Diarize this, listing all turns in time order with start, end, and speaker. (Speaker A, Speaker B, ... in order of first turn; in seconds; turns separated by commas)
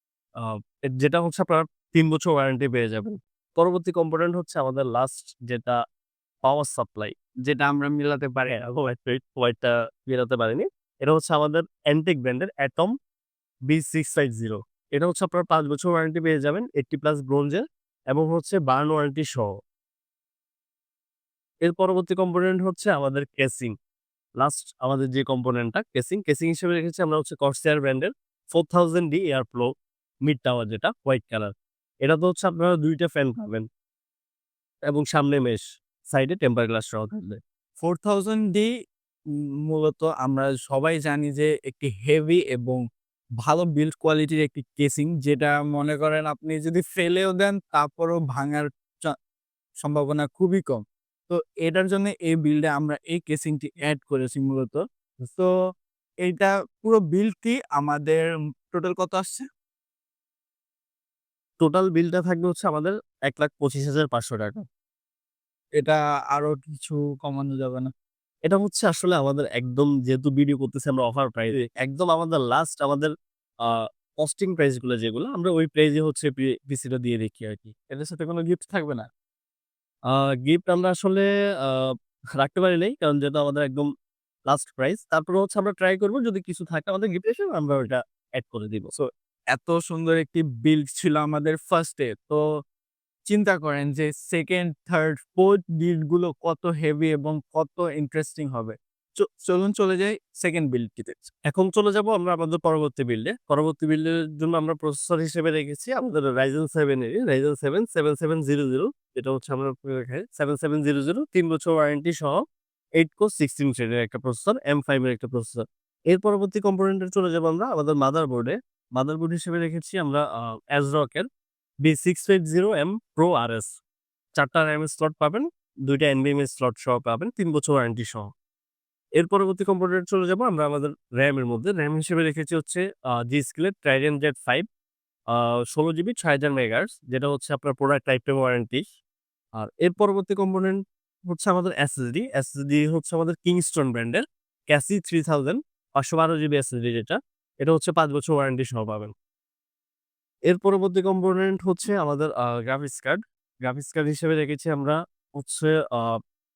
Speaker A: 0.3-5.8, Speaker A: 6.4-7.2, Speaker B: 7.4-8.6, Speaker A: 8.4-12.9, Speaker A: 13.7-19.5, Speaker A: 21.6-23.7, Speaker A: 24.4-29.7, Speaker A: 30.2-33.6, Speaker A: 34.9-37.4, Speaker B: 37.8-38.7, Speaker B: 39.7-42.8, Speaker B: 43.4-49.1, Speaker B: 49.8-55.5, Speaker B: 56.2-59.5, Speaker A: 61.6-64.6, Speaker B: 65.8-67.9, Speaker A: 68.4-73.1, Speaker A: 73.6-77.8, Speaker B: 77.9-79.1, Speaker A: 80.1-83.9, Speaker A: 84.5-88.9, Speaker B: 89.0-92.4, Speaker B: 93.3-101.3, Speaker A: 101.5-112.4, Speaker A: 113.0-121.2, Speaker A: 121.8-123.8, Speaker A: 124.3-128.3, Speaker A: 129.2-134.6, Speaker A: 135.3-138.8, Speaker A: 139.6-149.1, Speaker A: 150.5-156.2